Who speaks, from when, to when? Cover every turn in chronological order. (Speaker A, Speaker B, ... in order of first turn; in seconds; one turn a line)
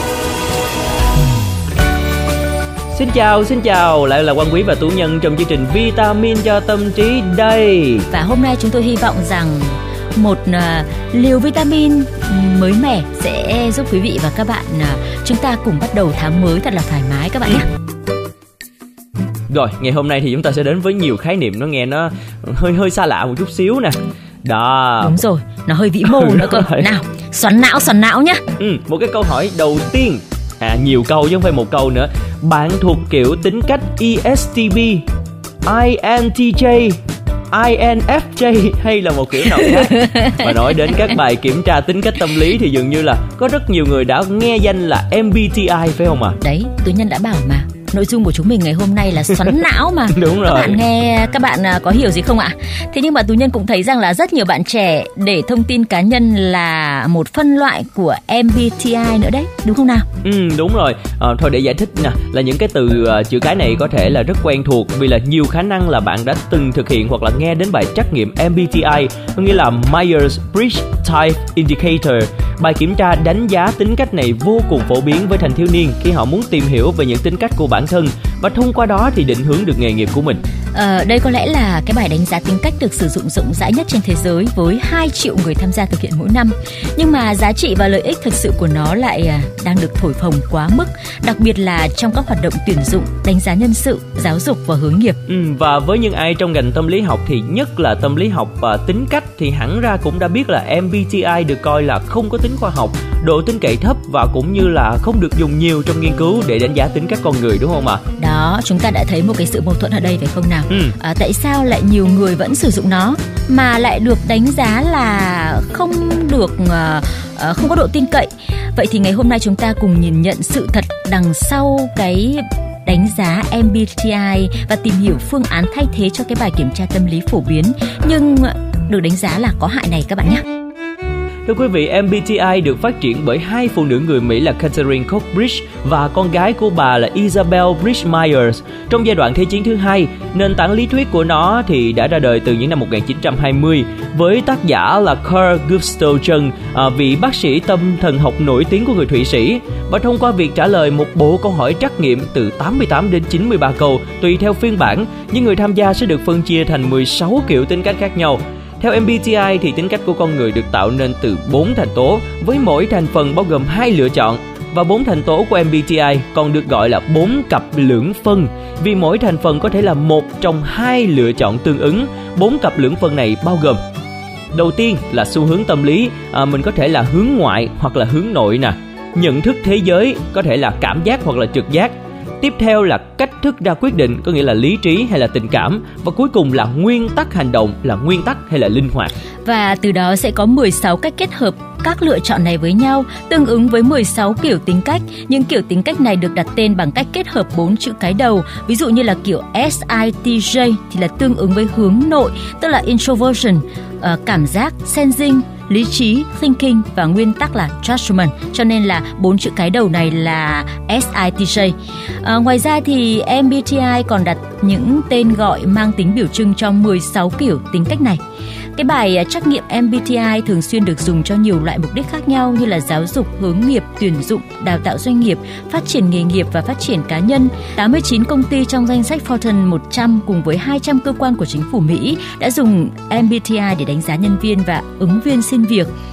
Speaker A: 2.9-8.1
Speaker B: 8.1-17.7
Speaker A: 19.5-25.1
Speaker B: 25.0-28.4
Speaker A: 26.1-26.9
Speaker A: 28.6-35.0
Speaker A: 35.6-37.0
Speaker A: 37.5-46.4
Speaker B: 39.6-40.9
Speaker B: 46.4-60.1
Speaker A: 50.1-50.8
Speaker A: 60.2-80.4
Speaker B: 80.7-95.2
Speaker A: 95.3-108.0
Speaker B: 108.2-130.4
Speaker A: 110.7-111.0
Speaker A: 131.5-173.8
Speaker A: 174.5-189.1
Speaker B: 189.4-218.2
Speaker B: 218.8-235.9